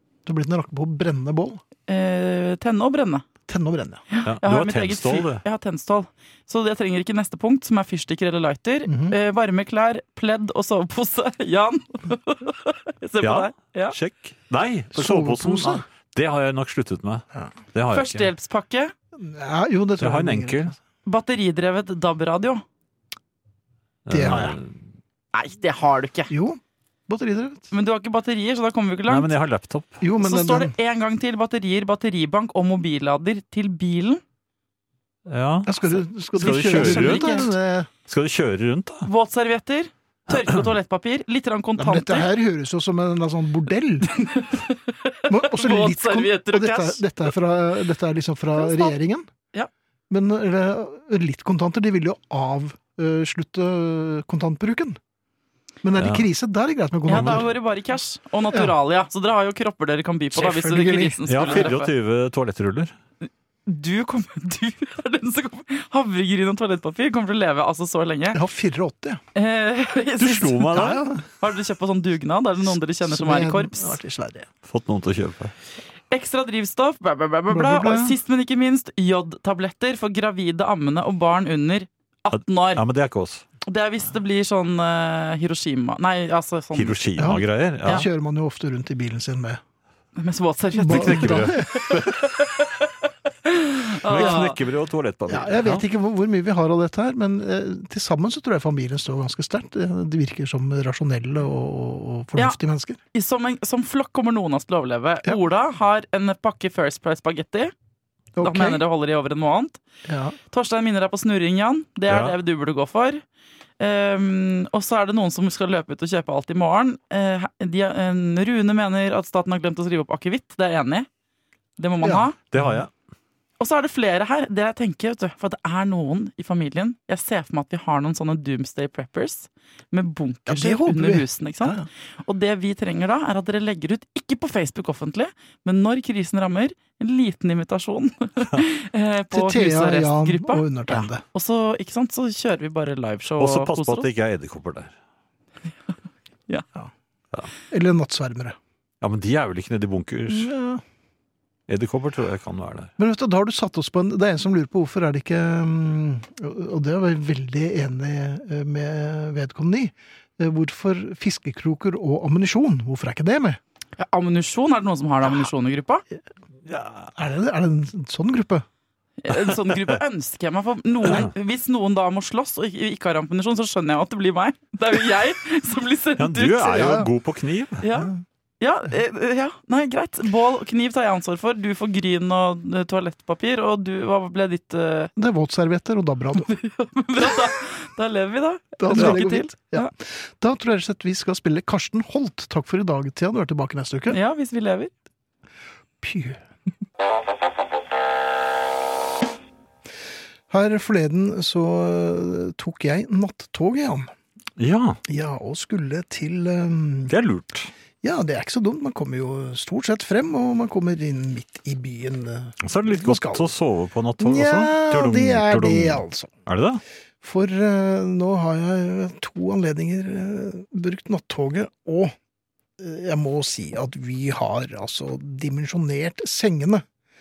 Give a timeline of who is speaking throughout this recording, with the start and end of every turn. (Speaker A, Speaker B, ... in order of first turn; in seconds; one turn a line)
Speaker A: 0.2-1.6
Speaker B: 1.9-3.2
Speaker A: 3.5-4.0
Speaker B: 4.1-13.9
Speaker C: 4.2-5.4
Speaker A: 8.8-9.2
Speaker C: 13.2-18.3
Speaker A: 14.9-15.8
Speaker B: 17.9-18.9
Speaker A: 19.1-20.8
Speaker C: 20.0-20.7
Speaker B: 21.1-22.6
Speaker C: 24.1-24.7
Speaker A: 24.1-24.6
Speaker B: 25.3-26.3
Speaker A: 26.3-27.7
Speaker B: 27.7-29.3
Speaker C: 29.1-30.0
Speaker A: 30.0-30.7
Speaker B: 30.2-34.2
Speaker C: 35.3-35.8
Speaker A: 35.6-37.9
Speaker C: 36.4-37.5
Speaker B: 36.4-37.5
Speaker C: 38.1-39.1
Speaker B: 39.0-42.3
Speaker A: 41.8-44.1
Speaker B: 44.1-47.0
Speaker A: 45.3-49.3
Speaker B: 48.6-48.9
Speaker A: 50.1-55.0
Speaker A: 55.8-57.5
Speaker C: 56.0-56.2
Speaker B: 57.1-61.9
Speaker C: 57.1-57.4
Speaker A: 60.3-61.7
Speaker C: 61.3-62.9
Speaker B: 63.6-68.4
Speaker A: 68.3-69.2
Speaker B: 69.3-74.0
Speaker C: 70.2-71.1
Speaker A: 70.7-71.2
Speaker A: 72.7-74.5
Speaker C: 74.7-75.5
Speaker B: 76.1-82.8
Speaker A: 77.5-78.2
Speaker C: 82.7-83.4
Speaker B: 83.7-88.0
Speaker C: 86.7-88.0
Speaker A: 87.2-89.6
Speaker B: 90.2-92.9
Speaker A: 90.8-91.8
Speaker C: 90.8-92.3
Speaker B: 93.4-94.6
Speaker C: 94.0-95.8
Speaker A: 94.1-94.4
Speaker A: 95.3-103.0
Speaker B: 103.1-107.7
Speaker A: 108.3-108.8
Speaker B: 108.4-109.8
Speaker A: 110.1-110.4
Speaker B: 110.5-113.2
Speaker C: 112.1-112.3
Speaker B: 113.8-121.1
Speaker B: 121.8-122.3
Speaker A: 122.0-122.8
Speaker C: 122.5-122.9
Speaker B: 123.6-144.1
Speaker A: 130.5-131.9
Speaker A: 139.3-141.2
Speaker C: 143.4-144.9
Speaker A: 147.7-148.6
Speaker C: 149.0-150.5
Speaker A: 150.3-150.8
Speaker C: 151.7-152.9
Speaker A: 153.0-163.6
Speaker B: 164.0-166.0
Speaker C: 166.7-167.1
Speaker A: 167.1-168.7
Speaker B: 169.2-177.0
Speaker C: 176.2-177.8
Speaker A: 176.7-177.1
Speaker B: 177.8-185.1
Speaker A: 177.9-178.2
Speaker A: 185.2-186.5
Speaker B: 186.4-189.9
Speaker A: 188.8-194.2
Speaker B: 194.1-194.9
Speaker A: 196.0-196.4
Speaker A: 200.5-204.1
Speaker C: 204.6-205.0
Speaker A: 205.1-207.1
Speaker C: 207.1-207.7
Speaker A: 208.0-213.5
Speaker C: 212.6-216.8
Speaker A: 214.2-216.3
Speaker A: 217.2-222.1
Speaker A: 222.8-226.8